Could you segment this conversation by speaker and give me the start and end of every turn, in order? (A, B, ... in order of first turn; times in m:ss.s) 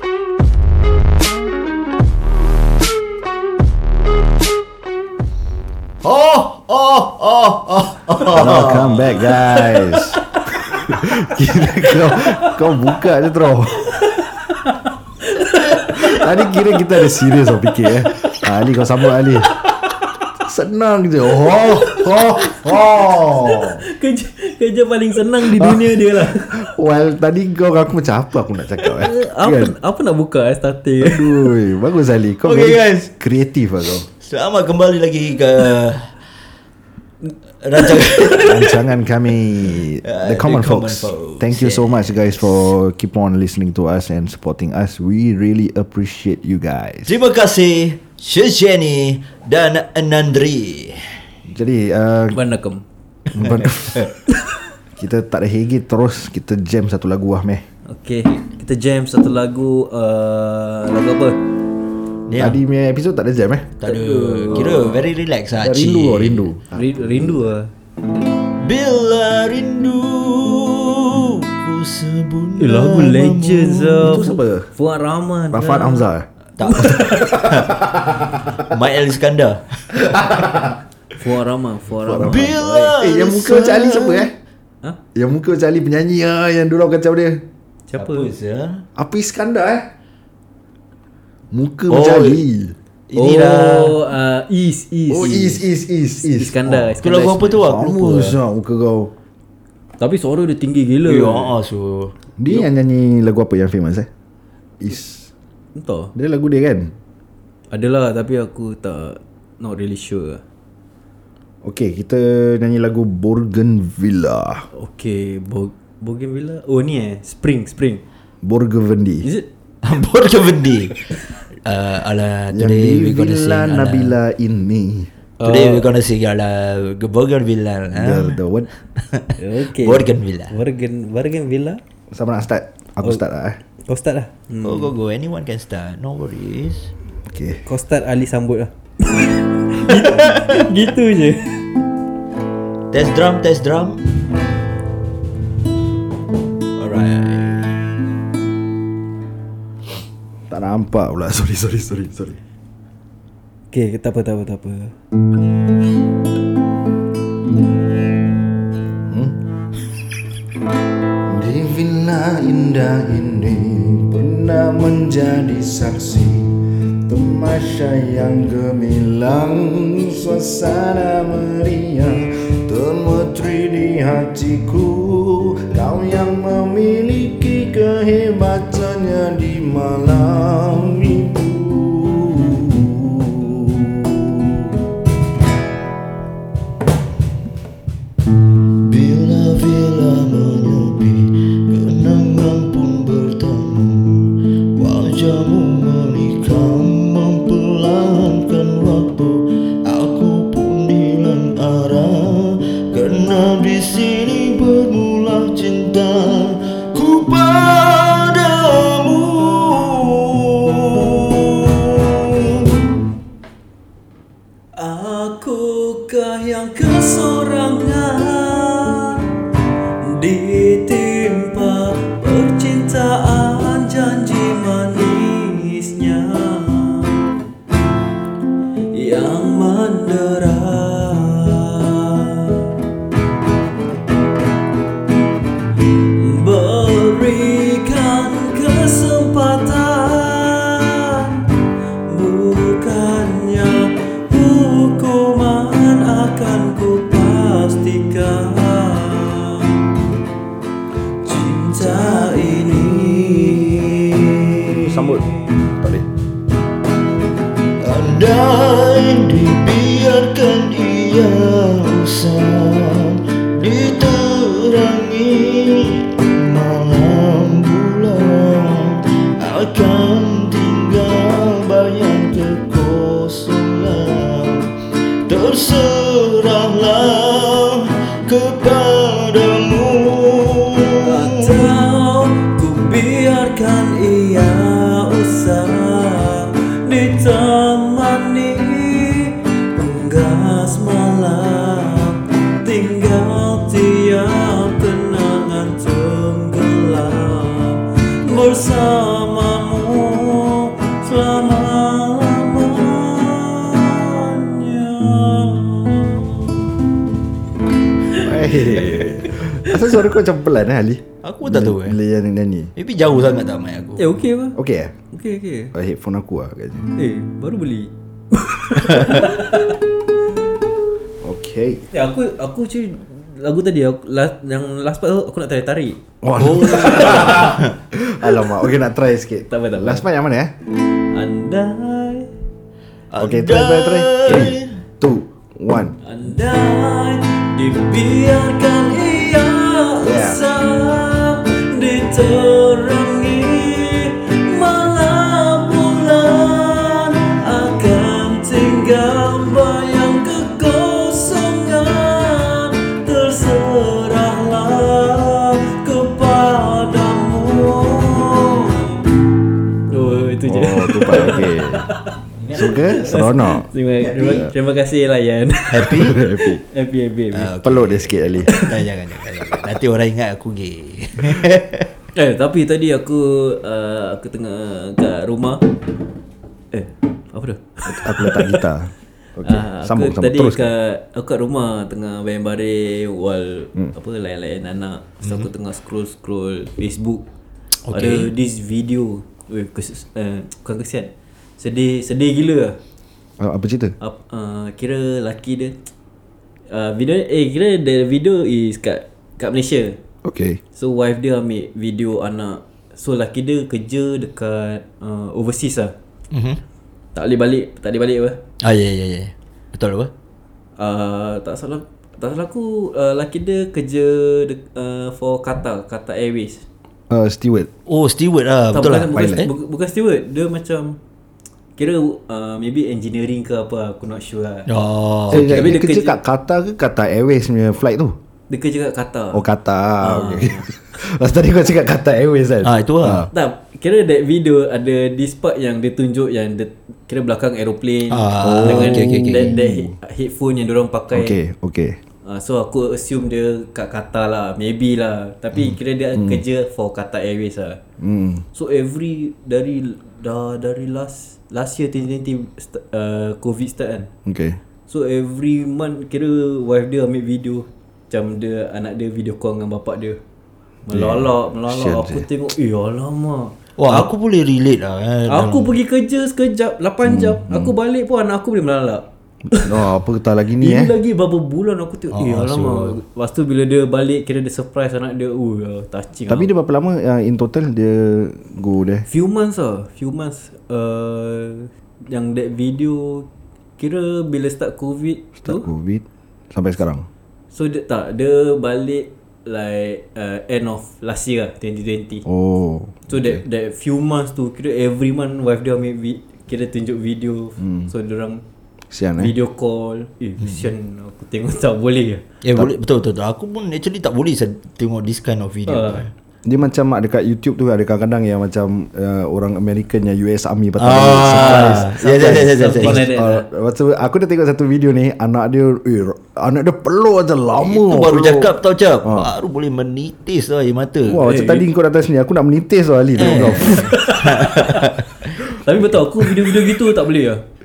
0:06.0-0:10.1 A
0:08.3-0:10.2 B
0:10.8-0:13.8 B
0:13.9-0:16.6 C
0:15.9-0:19.5 B
0:20.4-0:23.8 B
0:21.6-0:26.6 C
0:25.4-0:29.7 B
0:28.8-0:31.4 C
0:31.0-0:34.1 B
0:32.4-0:33.1 A
0:34.2-0:36.1 A
0:37.6-0:38.8 A
0:37.8-0:38.5 C
0:38.4-0:47.2 B
0:39.8-0:42.7 A
0:47.0-0:51.2 A
0:51.4-0:52.4 B
0:52.3-0:52.8 C
0:53.3-0:54.1 B
0:55.0-0:57.6 B
0:57.9-1:01.4 C
1:02.3-1:02.6 A
1:02.4-1:03.8 B
1:03.8-1:06.5 A
1:03.8-1:04.9 C
1:04.5-1:05.0 B
1:05.6-1:07.5 B
1:06.7-1:07.7 C
1:08.6-1:14.3 A
1:12.6-1:16.1 C
1:14.0-1:14.7 B
1:15.5-1:18.7 B
1:16.6-1:17.8 A
1:16.6-1:17.5 C
1:18.6-1:20.0 A
1:19.9-1:20.8 B
1:21.1-1:23.0 C
1:22.0-1:24.3 B
1:22.3-1:24.3 A
1:25.1-1:27.4 B
1:27.9-1:28.3 C
1:28.0-1:28.8 A
1:29.0-1:29.8 B
1:31.5-1:32.7 B
1:31.9-1:32.4 A
1:33.1-1:34.0 A
1:33.1-1:35.6 C
1:35.1-1:36.9 B
1:36.2-1:38.4 C
1:37.0-1:38.3 A
1:38.0-1:39.1 B
1:40.0-1:41.5 C
1:41.0-1:42.7 A
1:42.4-1:44.1 B
1:44.8-1:45.3 B
1:45.8-1:46.1 C
1:46.1-1:46.9 B
1:47.7-1:50.4 C
1:51.6-1:54.7 B
1:54.7-1:58.0 C
1:58.4-1:59.2 B
1:59.8-2:01.1 A
2:01.6-2:04.2 A
2:02.5-2:05.1 B
2:05.4-2:05.9 C
2:05.4-2:08.4 A
2:07.9-2:08.7 B
2:09.0-2:10.5 A
2:09.4-2:11.8 C
2:12.1-2:13.6 B
2:13.8-2:14.9 C
2:14.6-2:16.9 A
2:17.2-2:17.6 B
2:17.6-2:21.6 C
2:20.1-2:20.6 A
2:22.9-2:24.1 A
2:26.8-2:27.8 A
2:30.5-2:32.4 B
2:33.7-2:34.9 C
2:39.1-2:39.4 B
2:41.3-3:04.8 B
3:08.8-3:32.8 A
3:34.8-3:39.3 C
3:40.0-3:47.4 C
3:48.9-3:52.7 C
3:56.0-4:01.4 C
4:02.1-4:09.8 C
4:11.2-4:14.8 C
4:12.6-4:13.7 A
4:14.8-4:16.1 B
4:17.8-4:41.7 A
4:41.0-5:06.6 C
5:08.1-5:12.7 B
5:08.1-5:09.8 C
5:11.2-5:12.0 A
5:12.8-5:14.2 A
5:14.0-5:14.6 C
5:14.6-5:14.9 B
5:15.1-5:15.7 C
5:15.7-5:16.9 B
5:17.0-5:19.8 C
5:21.2-5:21.8 B
5:21.9-5:27.6 C
5:26.2-5:30.5 B
5:26.4-5:27.8 A
5:29.5-5:30.0 C
5:31.1-5:32.3 C
5:33.1-5:34.7 A
5:33.2-5:36.0 B
5:36.0-5:58.9 C
5:40.0-5:40.4 B
5:59.9-6:07.5 C
6:00.5-6:01.9 B
6:02.4-6:02.8 A
6:02.5-6:04.5 B
6:05.7-6:06.2 A
6:05.9-6:06.6 B
6:07.3-6:11.9 A
6:07.6-6:08.5 B
6:12.1-6:15.6 C
6:16.7-6:18.6 C
6:17.8-6:20.7 B
6:19.4-6:27.2 C
6:27.8-6:28.3 A
6:27.9-6:32.8 C
6:33.4-6:34.0 B
6:34.0-6:35.8 C
6:36.7-6:40.0 C
6:40.2-6:40.6 B
6:40.8-6:45.9 C
6:46.3-6:46.6 A
6:47.1-6:48.4 C
6:48.6-6:50.1 A
6:50.8-6:56.6 C
6:57.1-6:57.7 B
6:57.9-6:59.5 A
6:58.7-7:01.0 C
6:59.1-6:59.5 B
7:01.8-7:04.7 C
7:04.7-7:05.7 A
7:05.3-7:06.2 C
7:05.3-7:08.2 B
7:08.5-7:09.4 C
7:09.3-7:13.3 B
7:10.0-7:10.7 C
7:12.6-7:13.3 A
7:13.3-7:21.4 C
7:18.1-7:19.5 A
7:18.4-7:19.9 B
7:21.1-7:22.0 B
7:22.2-7:27.8 C
7:26.1-7:26.4 B
7:28.0-7:28.4 B
7:28.5-7:34.1 C
7:34.2-7:34.6 B
7:34.9-7:40.2 C
7:40.8-7:44.1 C
7:40.9-7:42.2 B
7:43.8-7:45.7 A
7:45.3-7:49.8 C
7:47.0-7:47.7 B
7:49.5-7:50.9 B
7:50.6-7:56.5 C
7:52.1-7:53.0 A
7:56.3-7:59.0 B
7:59.1-8:03.3 C
8:03.8-8:05.7 C
8:05.4-8:07.0 B
8:07.5-8:12.2 C
8:12.2-8:13.4 B
8:13.1-8:18.4 C
8:17.6-8:17.9 B
8:18.9-8:19.3 B
8:19.2-8:22.2 C
8:22.4-8:26.1 A
8:25.7-8:26.1 C
8:26.4-8:39.3 B
8:30.8-8:33.1 A
8:31.2-8:33.4 C
8:37.6-8:41.3 A
8:41.1-8:44.0 B
8:41.2-8:41.7 C
8:43.2-8:45.4 A
8:43.6-8:47.4 C